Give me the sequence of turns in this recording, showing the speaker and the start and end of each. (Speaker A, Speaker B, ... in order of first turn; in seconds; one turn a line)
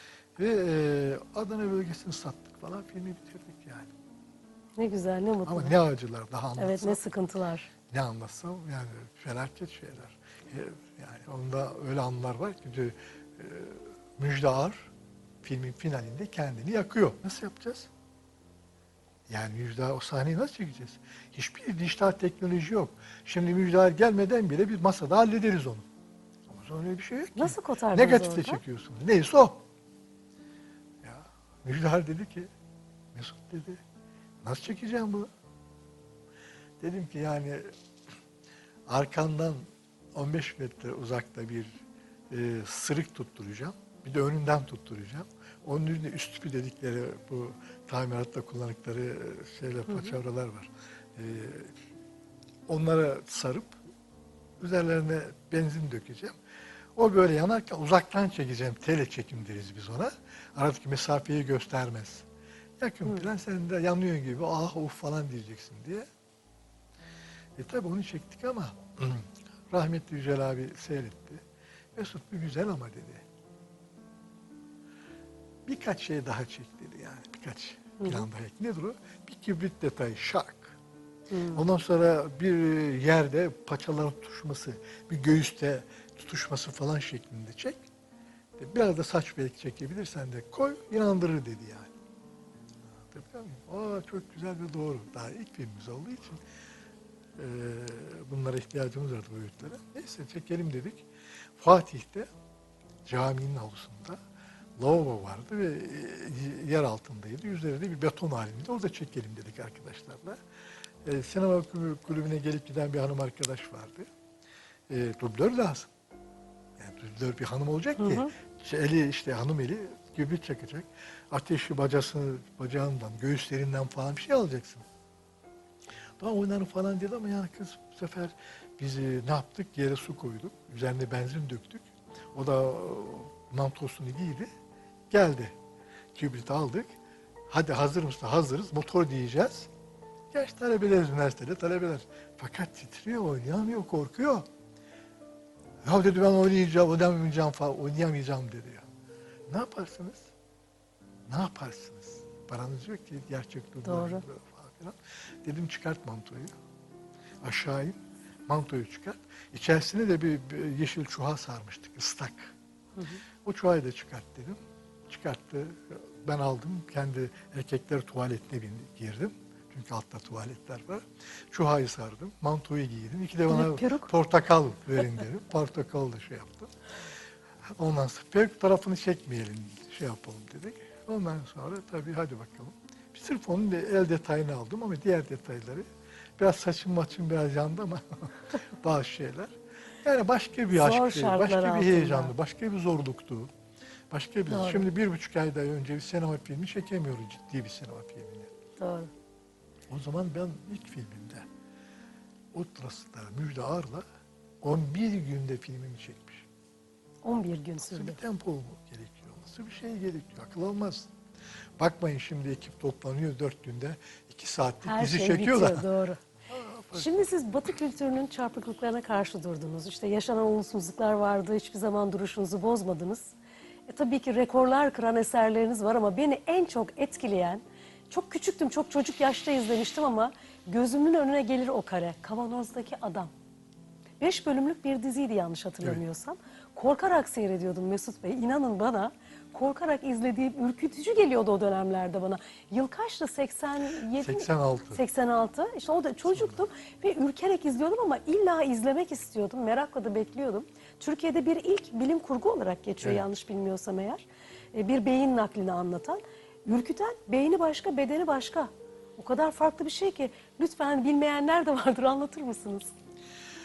Speaker A: 0.4-3.9
Speaker B: 4.8-5.8
Speaker A: 5.4-7.0
Speaker B: 6.6-7.7
Speaker A: 7.9-14.9
Speaker A: 15.4-17.9
Speaker A: 19.3-25.8
Speaker A: 26.5-29.6
Speaker B: 27.4-28.6
Speaker A: 31.0-32.5
Speaker A: 33.1-33.8
Speaker A: 34.4-35.3
Speaker A: 36.8-37.6
Speaker A: 38.9-41.8
Speaker A: 42.3-51.8
Speaker B: 49.9-50.1
Speaker A: 52.7-53.8
Speaker A: 54.6-56.4
Speaker A: 57.0-62.2
Speaker A: 62.8-66.0
Speaker A: 67.6-71.4
Speaker A: 72.0-73.2
Speaker A: 75.7-80.8
Speaker B: 78.0-78.3
Speaker B: 81.3-81.6
Speaker A: 81.5-87.8
Speaker A: 88.6-91.9
Speaker A: 92.9-96.4
Speaker A: 97.4-102.3
Speaker A: 103.0-104.2
Speaker A: 104.8-110.4
Speaker A: 111.0-114.0
Speaker A: 114.9-115.9
Speaker A: 116.8-124.8
Speaker B: 118.0-118.3
Speaker A: 126.2-134.5
Speaker A: 135.1-135.5
Speaker A: 136.1-136.9
Speaker A: 137.5-139.7
Speaker A: 140.3-144.4
Speaker A: 145.8-148.8
Speaker A: 149.5-150.3
Speaker A: 151.3-156.5
Speaker B: 153.8-154.2
Speaker A: 157.4-162.5
Speaker A: 163.4-176.7
Speaker B: 173.5-174.1
Speaker A: 177.8-185.8
Speaker A: 186.4-193.5
Speaker B: 190.7-192.3
Speaker A: 194.1-198.5
Speaker B: 194.5-194.9
Speaker B: 198.8-199.1
Speaker A: 199.9-201.4
Speaker A: 202.5-204.0
Speaker A: 204.6-206.5
Speaker B: 207.2-208.2
Speaker A: 207.9-211.1
Speaker A: 211.8-215.8
Speaker B: 214.8-216.2
Speaker A: 216.5-217.2
Speaker B: 216.9-223.3
Speaker B: 223.9-233.3
Speaker B: 234.2-262.9
Speaker A: 244.2-245.0
Speaker A: 246.3-246.6